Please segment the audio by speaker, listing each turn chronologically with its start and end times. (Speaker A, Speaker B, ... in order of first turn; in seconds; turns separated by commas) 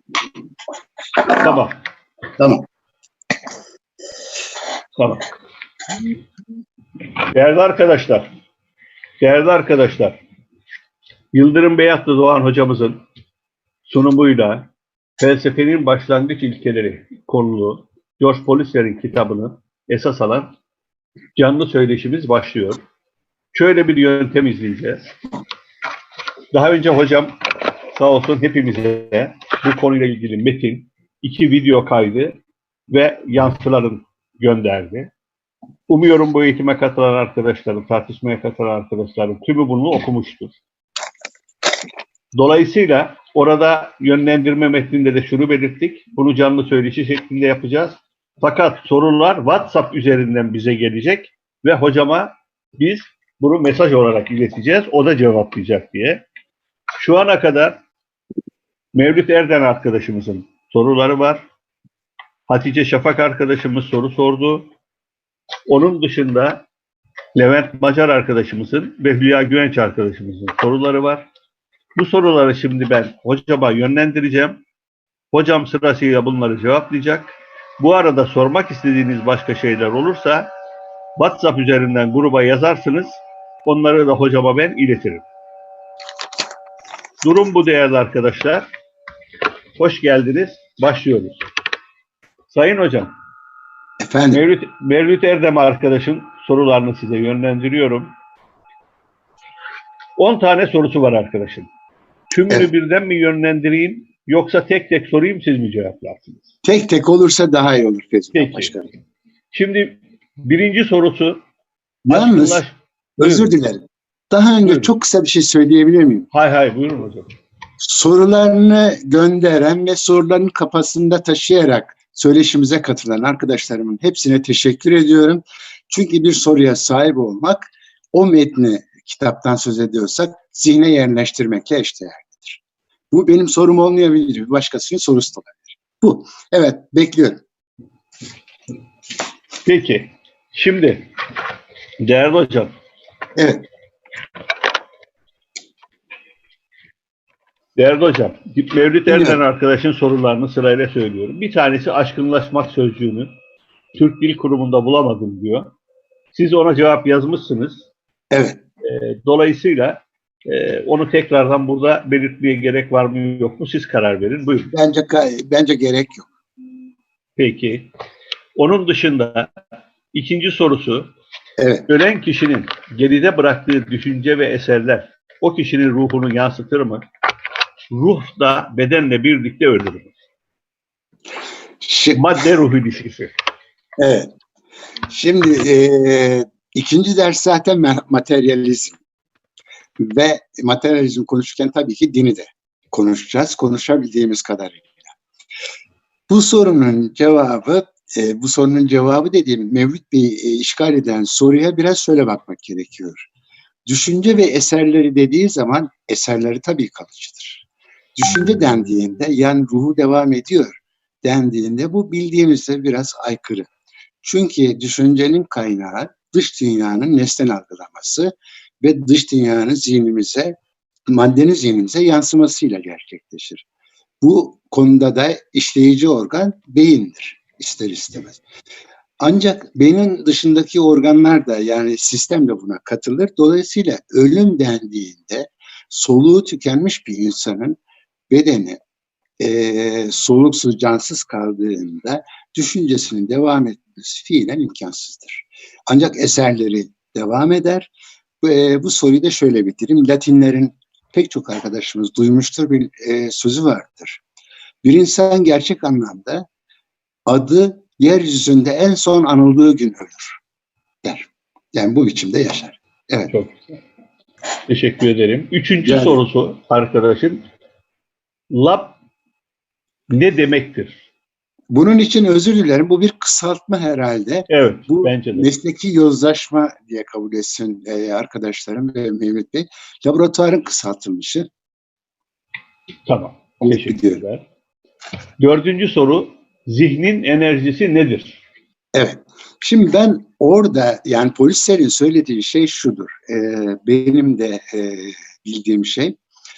Speaker A: 1.3-1.8, Speaker B: 2.4-2.7, Speaker A: 5.0-5.3, Speaker A: 7.2-8.3, Speaker A: 9.2-10.2, Speaker A: 11.3-13.0, Speaker A: 13.9-20.5, Speaker A: 21.4-22.8, Speaker A: 23.5-25.1, Speaker A: 26.5-27.3, Speaker A: 27.9-35.1, Speaker A: 35.9-40.6, Speaker A: 42.3-56.2, Speaker A: 57.0-57.8, Speaker A: 59.0-61.5, Speaker A: 62.5-64.7, Speaker A: 65.7-66.7, Speaker A: 67.4-71.3, Speaker A: 72.0-74.6, Speaker A: 75.3-80.5, Speaker A: 81.2-85.3, Speaker A: 87.2-88.7, Speaker A: 89.8-91.4, Speaker A: 92.5-93.1, Speaker B: 94.0-94.4, Speaker A: 94.3-98.1, Speaker A: 100.2-101.7, Speaker A: 102.3-106.5, Speaker B: 106.6-108.9, Speaker A: 108.3-108.8, Speaker A: 109.5-111.4, Speaker B: 112.1-112.6, Speaker A: 112.1-113.5, Speaker B: 113.2-116.3, Speaker A: 114.6-115.0, Speaker A: 116.3-117.3, Speaker B: 117.8-132.6, Speaker B: 133.1-137.4, Speaker A: 139.7-141.1, Speaker A: 142.0-142.7, Speaker B: 143.4-143.7, Speaker A: 147.8-153.3, Speaker B: 149.1-149.4, Speaker A: 154.0-155.7, Speaker A: 156.3-157.8, Speaker B: 158.3-158.6, Speaker A: 158.8-164.7, Speaker B: 164.7-166.3, Speaker A: 167.4-167.9, Speaker A: 168.6-169.5, Speaker A: 170.1-171.1, Speaker B: 171.6-171.9, Speaker A: 171.9-177.1, Speaker A: 177.9-180.1, Speaker B: 181.8-182.2, Speaker A: 182.1-183.3, Speaker B: 184.0-184.3, Speaker B: 185.1-189.0, Speaker B: 190.0-195.0, Speaker B: 196.3-203.3, Speaker B: 203.9-207.7, Speaker B: 208.2-213.7, Speaker B: 214.2-220.6, Speaker B: 221.1-223.6, Speaker B: 224.2-228.4, Speaker B: 229.2-237.8, Speaker B: 238.3-238.8, Speaker B: 239.4-247.9, Speaker B: 248.4-254.2, Speaker B: 254.8-256.5, Speaker B: 257.3-260.4, Speaker B: 261.0-263.3, Speaker A: 263.3-263.7, Speaker A: 264.7-267.4, Speaker B: 265.9-266.2, Speaker A: 268.5-269.0, Speaker A: 270.1-271.1, Speaker B: 271.7-281.5, Speaker A: 274.5-275.5, Speaker A: 283.1-284.5, Speaker B: 283.6-284.2, Speaker A: 285.4-288.4, Speaker B: 288.9-296.2